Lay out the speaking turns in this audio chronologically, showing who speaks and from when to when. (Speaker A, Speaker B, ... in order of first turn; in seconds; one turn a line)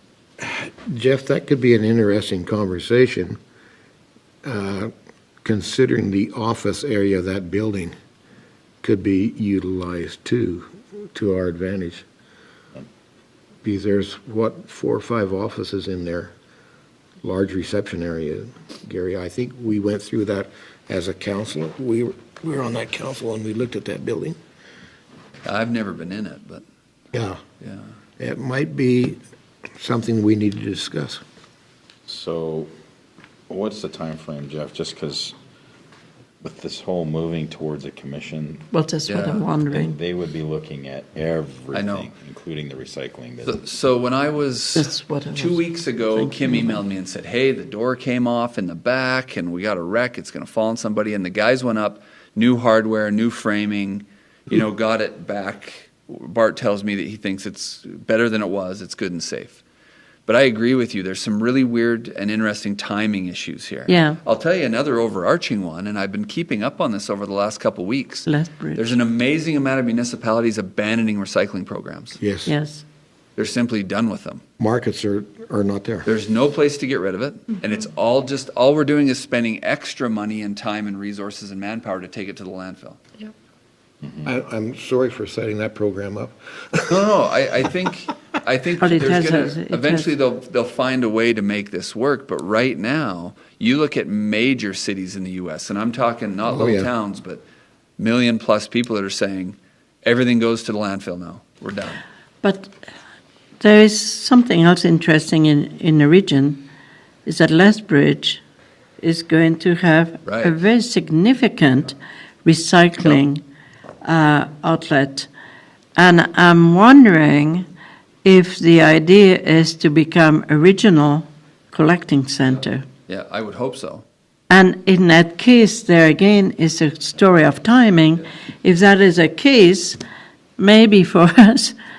Speaker A: 0.4-3.4
Speaker A: 4.4-4.9
Speaker A: 5.4-7.9
Speaker A: 8.8-12.1
Speaker A: 13.6-16.3
Speaker A: 17.2-24.4
Speaker B: 25.4-26.6
Speaker A: 27.1-27.4
Speaker A: 28.2-29.2
Speaker A: 29.8-31.2
Speaker C: 32.1-32.7
Speaker C: 33.5-35.4
Speaker C: 36.4-38.7
Speaker D: 38.7-40.0
Speaker B: 39.1-39.5
Speaker C: 39.7-43.6
Speaker B: 41.7-42.1
Speaker B: 43.5-59.6
Speaker D: 44.8-46.8
Speaker B: 60.3-72.2
Speaker D: 63.9-64.2
Speaker D: 68.3-69.0
Speaker A: 72.2-72.5
Speaker D: 72.5-72.8
Speaker B: 73.4-74.4
Speaker A: 74.6-76.1
Speaker B: 76.0-83.0
Speaker A: 84.2-87.1
Speaker B: 86.9-97.4
Speaker D: 88.8-90.1
Speaker A: 96.5-96.9
Speaker B: 98.0-102.0
Speaker D: 102.4-102.7
Speaker D: 103.6-106.6
Speaker D: 107.3-108.4
Speaker D: 109.0-113.4
Speaker B: 110.3-110.5
Speaker D: 114.0-115.3
Speaker D: 116.0-117.7
Speaker D: 118.2-122.8
Speaker B: 123.1-124.0
Speaker D: 124.5-130.0
Speaker D: 130.6-131.8